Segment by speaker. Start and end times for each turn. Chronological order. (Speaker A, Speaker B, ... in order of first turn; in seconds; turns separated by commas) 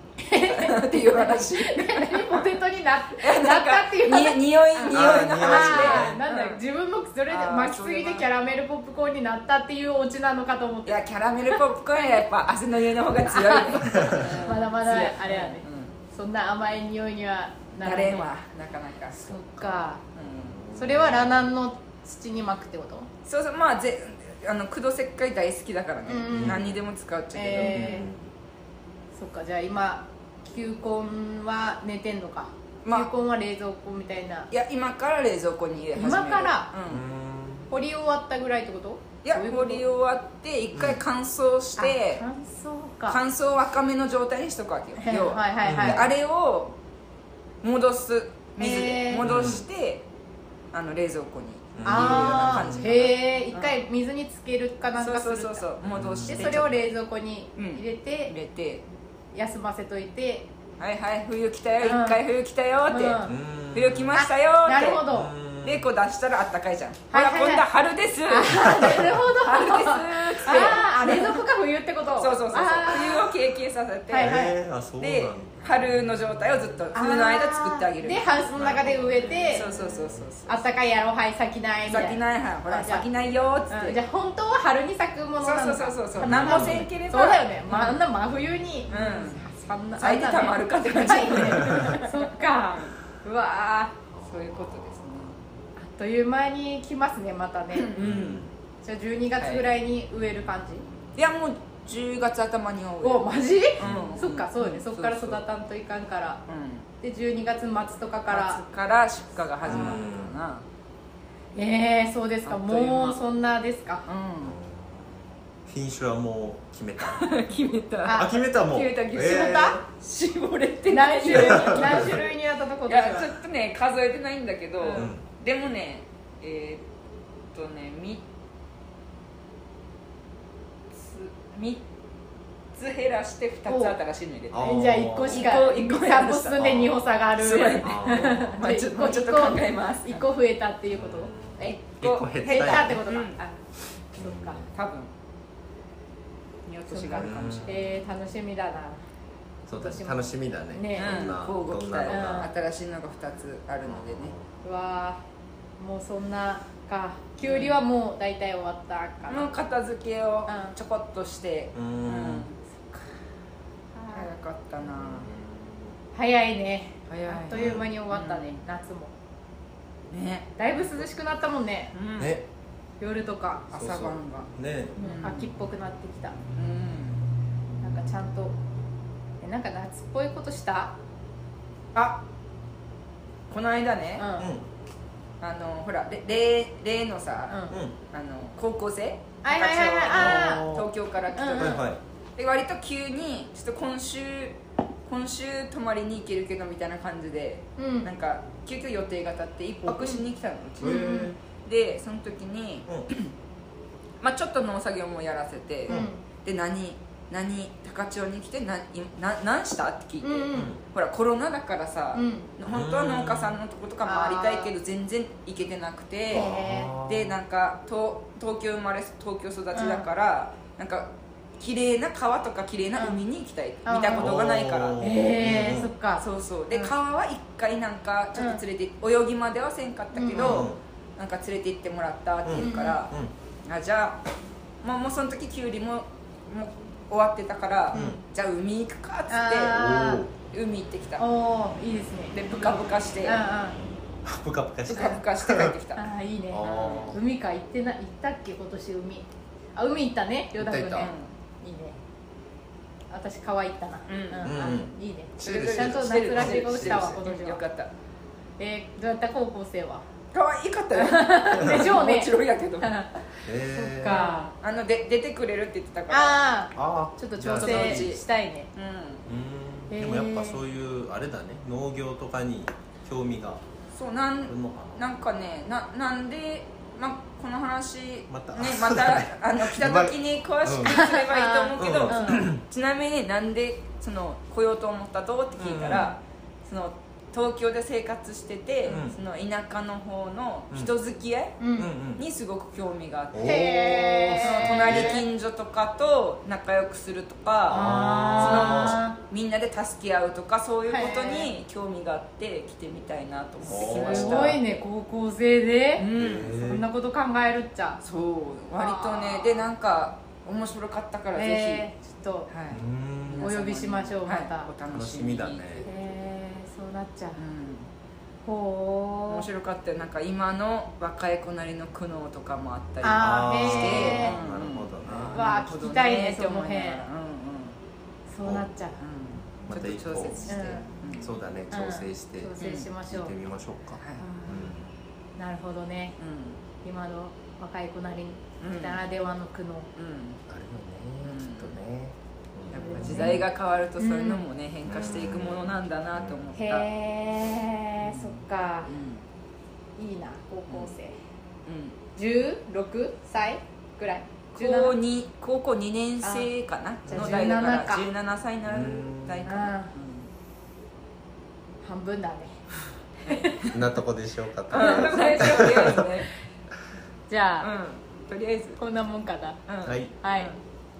Speaker A: 0.2-12.2, Speaker B: 0.4-2.6, Speaker B: 3.2-6.6, Speaker C: 4.9-6.2, Speaker B: 7.3-8.3, Speaker B: 10.9-15.9, Speaker A: 13.3-18.3, Speaker C: 13.9-14.4, Speaker B: 17.8-19.3, Speaker A: 19.2-20.0, Speaker C: 19.3-21.5, Speaker B: 20.1-20.6, Speaker A: 20.8-23.1, Speaker B: 23.2-28.1, Speaker A: 26.1-26.7, Speaker C: 26.3-26.8, Speaker A: 27.3-28.1, Speaker C: 27.6-28.3, Speaker A: 29.1-34.5, Speaker B: 32.9-33.1, Speaker B: 34.5-37.0, Speaker A: 35.9-36.7, Speaker C: 36.9-37.7, Speaker A: 37.7-39.8, Speaker B: 39.2-42.2, Speaker C: 40.7-41.0, Speaker A: 41.8-43.2, Speaker B: 43.1-46.8, Speaker A: 45.0-46.1, Speaker C: 45.6-46.1, Speaker B: 47.6-50.0, Speaker A: 48.6-49.2, Speaker C: 49.2-49.6, Speaker B: 50.7-53.8, Speaker C: 51.8-52.9, Speaker A: 51.8-55.6, Speaker B: 55.0-56.7, Speaker C: 55.8-56.8, Speaker A: 56.3-58.3, Speaker B: 57.6-58.9, Speaker A: 59.3-60.5, Speaker B: 60.8-65.1, Speaker A: 61.8-62.2, Speaker A: 62.9-63.4, Speaker C: 63.3-64.1, Speaker A: 64.1-65.3, Speaker C: 65.1-65.8, Speaker B: 65.6-71.4, Speaker A: 67.1-67.7, Speaker A: 68.3-73.3, Speaker B: 72.2-74.4, Speaker A: 74.1-74.5, Speaker C: 74.2-75.8, Speaker B: 75.0-78.6, Speaker A: 77.0-79.7, Speaker C: 78.5-80.2, Speaker B: 79.5-80.6, Speaker A: 80.5-83.1, Speaker B: 81.9-84.0, Speaker A: 83.7-94.0, Speaker B: 85.4-88.1, Speaker C: 86.1-86.9, Speaker C: 88.9-89.4, Speaker B: 88.9-89.4, Speaker B: 90.0-92.9, Speaker C: 94.1-95.4, Speaker B: 94.3-95.4, Speaker A: 95.8-98.2, Speaker B: 97.7-98.5, Speaker C: 98.0-98.5, Speaker A: 98.8-100.8, Speaker B: 99.4-99.7, Speaker B: 101.2-105.4, Speaker A: 103.0-106.4, Speaker C: 103.8-104.2, Speaker B: 106.5-106.9, Speaker A: 107.0-108.6, Speaker B: 108.3-110.7, Speaker A: 109.6-110.0, Speaker C: 109.7-110.4, Speaker A: 111.5-114.0, Speaker B: 112.5-113.2, Speaker B: 114.1-114.6, Speaker C: 114.4-117.4, Speaker B: 117.0-122.3, Speaker A: 118.0-118.4, Speaker C: 118.1-119.8, Speaker A: 119.2-119.8, Speaker A: 120.9-123.3, Speaker C: 121.3-122.1, Speaker B: 122.9-126.8, Speaker A: 124.8-125.1, Speaker C: 124.9-125.2, Speaker B: 127.5-128.2, Speaker B: 130.9-131.8, Speaker B: 132.7-134.7, Speaker A: 133.7-134.0, Speaker C: 134.5-135.5, Speaker A: 134.6-141.8, Speaker B: 135.3-136.7, Speaker C: 136.6-137.0, Speaker B: 137.4-140.3, Speaker C: 137.8-138.6, Speaker C: 140.9-143.0, Speaker B: 141.6-143.4, Speaker A: 142.4-143.6, Speaker A: 144.2-144.6, Speaker C: 144.2-144.7, Speaker B: 144.7-145.1, Speaker B: 146.7-147.8, Speaker A: 146.9-149.0, Speaker C: 147.1-147.9, Speaker C: 149.7-152.5, Speaker A: 149.8-151.4, Speaker B: 151.0-154.3, Speaker A: 152.1-152.5, Speaker C: 153.9-154.5, Speaker A: 154.6-155.2, Speaker A: 155.8-159.5, Speaker B: 157.4-157.8, Speaker B: 159.3-162.6, Speaker A: 160.5-160.8, Speaker C: 161.8-162.5, Speaker A: 163.9-164.3, Speaker B: 164.1-165.3, Speaker A: 166.2-169.1, Speaker B: 167.1-168.6, Speaker C: 167.5-167.9, Speaker B: 170.1-170.6, Speaker A: 170.6-171.9, Speaker B: 171.9-172.4, Speaker C: 172.2-172.4, Speaker A: 173.0-173.7, Speaker B: 173.7-175.5, Speaker C: 173.7-175.0, Speaker A: 175.0-176.4, Speaker B: 176.6-177.2, Speaker A: 177.8-178.6, Speaker A: 179.4-180.9, Speaker B: 183.5-184.3, Speaker A: 184.2-184.5, Speaker C: 184.4-184.7, Speaker B: 185.4-187.6, Speaker A: 187.5-187.8, Speaker C: 187.7-187.9, Speaker B: 188.1-191.8, Speaker A: 189.4-190.7, Speaker C: 190.1-190.9, Speaker A: 191.3-191.8, Speaker C: 191.5-192.0, Speaker B: 192.4-203.3, Speaker A: 197.8-198.1, Speaker C: 199.9-200.1, Speaker C: 200.8-201.3, Speaker A: 200.8-201.3, Speaker B: 204.2-216.5, Speaker A: 205.9-206.2, Speaker A: 210.2-210.8, Speaker C: 210.5-210.8, Speaker A: 212.1-212.5, Speaker C: 212.7-213.6, Speaker A: 214.0-214.7, Speaker C: 216.3-217.4, Speaker A: 216.3-216.9, Speaker B: 217.0-225.0, Speaker A: 219.7-220.1, Speaker A: 223.9-224.3, Speaker C: 224.2-225.9, Speaker A: 225.0-226.9, Speaker B: 226.2-233.1, Speaker A: 228.3-228.6, Speaker A: 230.2-230.7, Speaker C: 230.3-230.8, Speaker C: 232.4-233.3, Speaker A: 232.6-233.1, Speaker B: 233.7-234.2, Speaker B: 234.8-241.2, Speaker A: 237.9-238.2, Speaker C: 237.9-238.2, Speaker A: 239.3-240.3, Speaker C: 239.7-240.3, Speaker A: 241.2-243.8, Speaker B: 242.3-243.4, Speaker C: 244.2-245.8, Speaker B: 244.9-246.0, Speaker A: 246.0-251.1, Speaker C: 246.5-247.2, Speaker B: 246.7-247.1, Speaker C: 250.6-251.1, Speaker B: 251.0-251.3, Speaker A: 251.6-252.0, Speaker A: 253.1-257.6, Speaker B: 254.1-254.6, Speaker C: 254.4-257.2, Speaker B: 255.4-257.9, Speaker A: 258.6-260.0, Speaker B: 260.3-262.9, Speaker A: 260.9-264.5, Speaker C: 263.5-264.2, Speaker B: 264.2-266.4, Speaker A: 266.1-268.7, Speaker C: 266.8-268.2, Speaker B: 267.5-268.2, Speaker B: 268.8-269.2, Speaker C: 269.3-273.6, Speaker A: 269.9-270.6, Speaker B: 273.9-291.6, Speaker C: 274.5-275.0, Speaker C: 278.3-281.1, Speaker A: 280.9-282.5, Speaker C: 281.8-282.6, Speaker C: 285.6-286.1, Speaker C: 288.9-289.2, Speaker A: 291.6-291.9, Speaker C: 291.8-292.2, Speaker B: 292.2-304.8, Speaker C: 293.3-295.2, Speaker A: 293.4-295.2, Speaker C: 297.7-299.0, Speaker A: 297.7-299.2, Speaker A: 300.9-301.5, Speaker C: 303.6-304.6, Speaker A: 303.7-308.0, Speaker B: 306.0-306.7, Speaker C: 306.1-306.9, Speaker B: 308.0-311.9, Speaker A: 308.8-309.7, Speaker A: 311.4-312.5, Speaker B: 312.5-315.9, Speaker C: 312.7-313.5, Speaker A: 313.4-314.7, Speaker C: 314.9-315.9, Speaker A: 315.8-317.4, Speaker B: 317.4-317.9, Speaker A: 318.4-319.4, Speaker B: 319.3-327.8, Speaker A: 323.0-324.4, Speaker C: 323.2-325.5, Speaker A: 325.3-327.0, Speaker A: 328.3-329.0, Speaker B: 329.0-331.4, Speaker C: 329.6-334.9, Speaker A: 330.5-330.9, Speaker A: 331.7-333.4, Speaker B: 332.6-332.9, Speaker B: 334.0-334.3, Speaker A: 334.2-334.7, Speaker A: 335.4-336.2, Speaker B: 336.2-336.6, Speaker A: 336.8-339.9, Speaker B: 338.6-339.0, Speaker B: 340.0-340.4, Speaker C: 340.5-343.5, Speaker B: 341.3-341.8, Speaker B: 342.7-346.9, Speaker A: 342.7-343.5, Speaker A: 344.0-344.4, Speaker C: 344.9-346.6, Speaker A: 346.6-348.9, Speaker B: 348.0-349.2, Speaker A: 350.0-351.2, Speaker B: 351.6-352.0, Speaker A: 352.2-354.9, Speaker B: 354.6-360.3, Speaker A: 356.2-356.5, Speaker A: 357.1-358.1, Speaker C: 357.1-357.5, Speaker C: 358.6-359.5, Speaker A: 359.5-359.9, Speaker A: 361.8-362.6, Speaker A: 363.2-363.8, Speaker B: 363.3-363.8, Speaker C: 363.7-366.1, Speaker A: 364.7-366.0, Speaker B: 364.7-366.3, Speaker A: 367.3-367.7, Speaker B: 367.6-368.8, Speaker A: 368.8-369.6, Speaker B: 369.7-370.6, Speaker C: 369.9-370.1, Speaker A: 370.2-370.5